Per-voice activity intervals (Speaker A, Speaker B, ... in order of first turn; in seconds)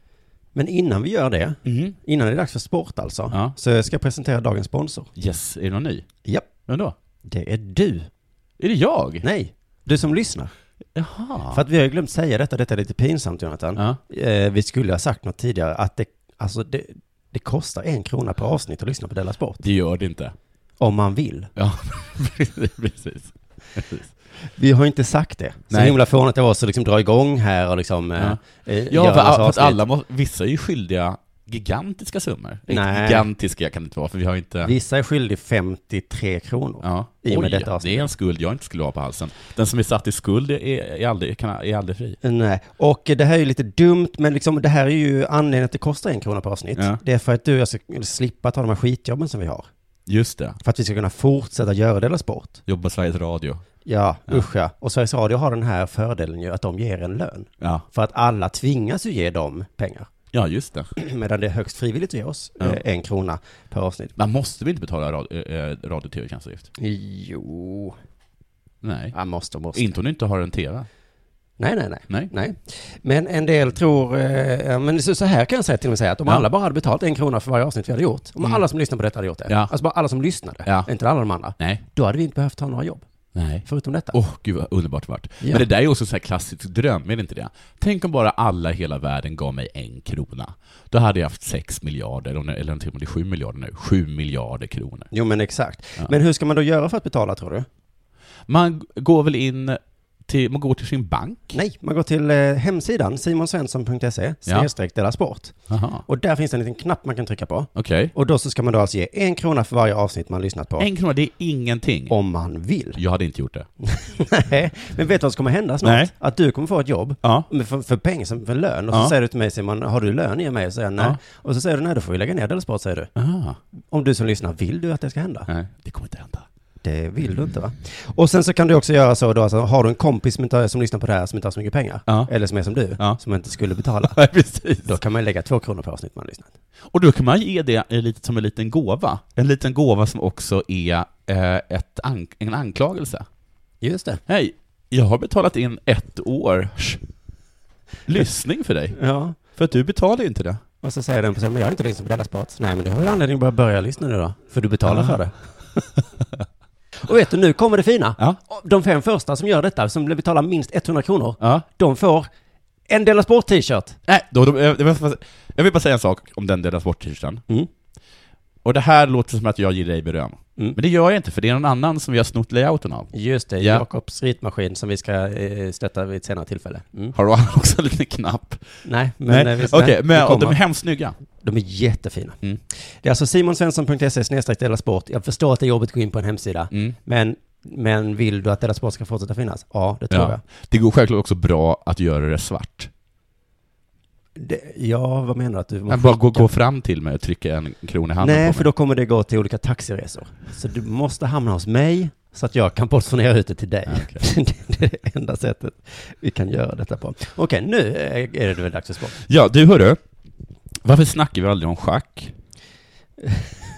Speaker A: 0.5-5.1, 7.2-8.1, 9.2-10.5, 11.5-19.6, 20.8-21.5, 24.6-29.8, 32.7-33.3, 34.6-38.1, 42.2-49.7, 50.6-52.6, 53.8-60.1, 61.0-64.1, 66.8-68.0, 69.1-69.9, 71.6-83.0, 83.6-84.2, 95.1-97.7, 101.5-110.9, 112.1-113.0, 113.8-123.1, 123.9-125.5, 126.8-134.2, 134.8-136.5, 143.8-144.2, 148.9-149.3, 150.8-155.3, 157.0-162.3, 162.9-164.0, 173.1-177.1, 178.8-180.6, 181.4-190.4, 194.3-196.5, 198.2-209.2, 213.2-213.5
Speaker B: 1.6-1.9, 5.2-6.1, 6.7-6.9, 8.6-9.2, 10.9-11.6, 19.6-20.3, 21.6-24.1, 25.7-26.0, 28.2-34.7, 36.8-42.2, 46.8-47.0, 50.0-50.6, 52.7-53.6, 60.3-60.9, 64.2-66.7, 68.8-69.2, 69.7-70.9, 79.5-79.7, 80.6-80.9, 81.6-81.8, 83.3-95.1, 98.5-101.6, 105.7-106.0, 107.7-108.1, 110.8-112.1, 113.0-113.7, 115.8-116.1, 117.2-117.5, 123.2-123.6, 125.5-126.5, 134.0-134.9, 136.9-143.2, 144.3-147.0, 148.1-150.6, 154.9-155.2, 164.1-167.4, 168.6-173.8, 177.1-178.6, 179.3-181.2, 186.7-186.9, 190.1-192.9, 195.9-198.7, 203.9-204.2, 209.2-210.0, 210.8-212.3